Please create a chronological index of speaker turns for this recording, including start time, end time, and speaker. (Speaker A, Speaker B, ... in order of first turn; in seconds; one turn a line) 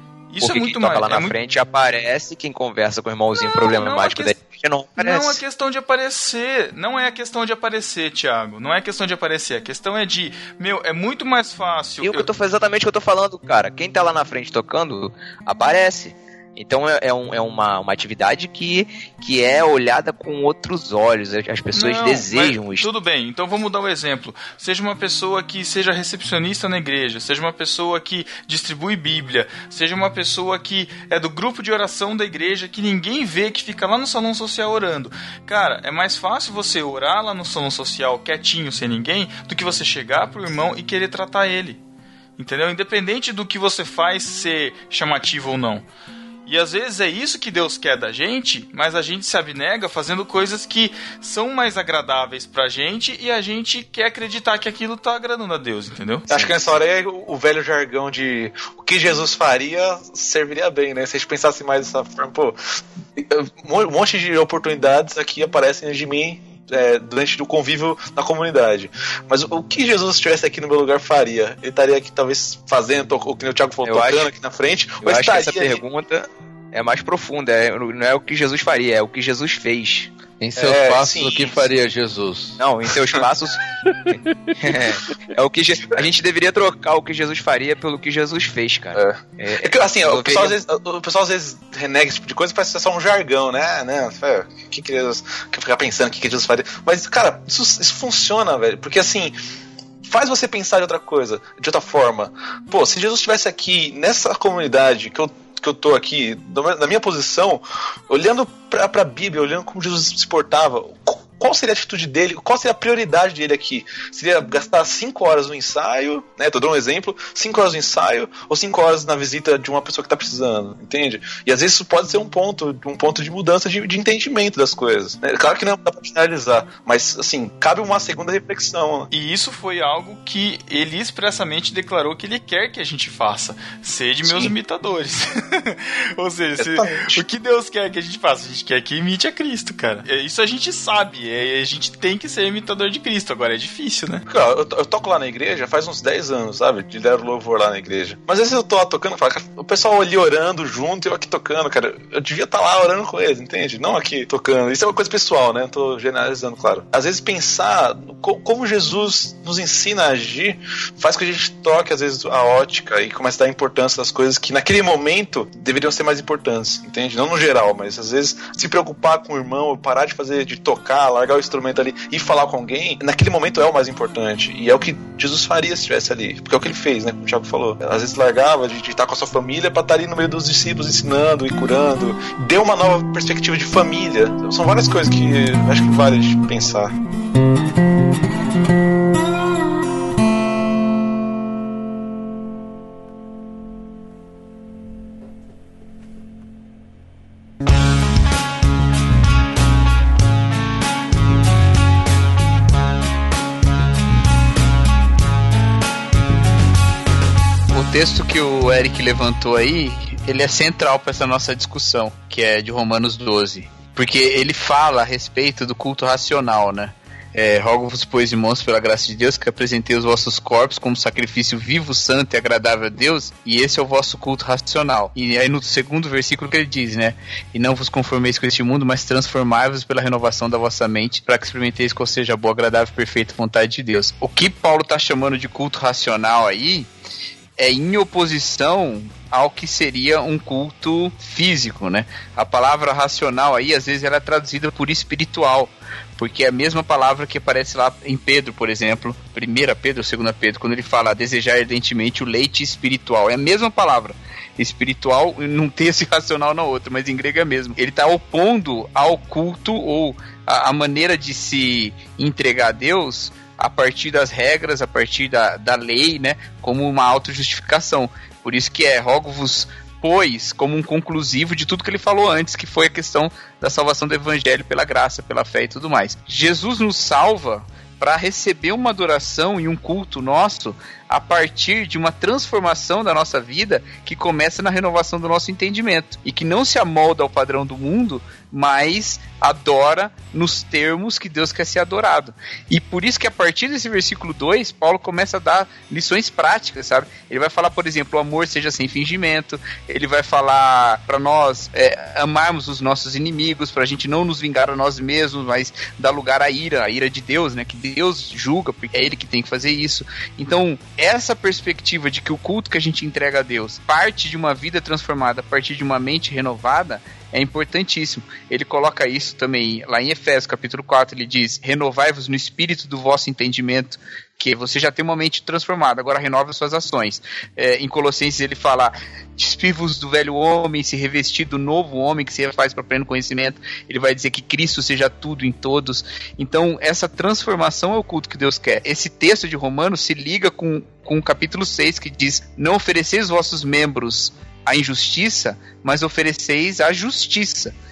Speaker A: 0.3-1.4
Speaker B: 0.4-5.4
Speaker A: 3.4-4.4
Speaker A: 5.0-12.3
Speaker B: 12.0-22.9
Speaker A: 21.7-41.8
Speaker A: 42.4-45.8
Speaker A: 46.5-56.3
Speaker C: 56.3-62.6
Speaker C: 63.2-75.8
Speaker B: 73.8-74.3
Speaker B: 75.0-80.1
Speaker D: 80.4-82.6
Speaker C: 80.6-81.7
Speaker B: 82.6-83.6
Speaker C: 83.0-83.3
Speaker B: 84.1-90.6
Speaker C: 88.9-99.3
Speaker C: 100.0-129.1
Speaker A: 129.1-144.2
Speaker C: 134.2-134.5
Speaker C: 136.6-137.2
Speaker C: 144.3-186.9
Speaker E: 207.7-236.9
Speaker E: 237.6-347.7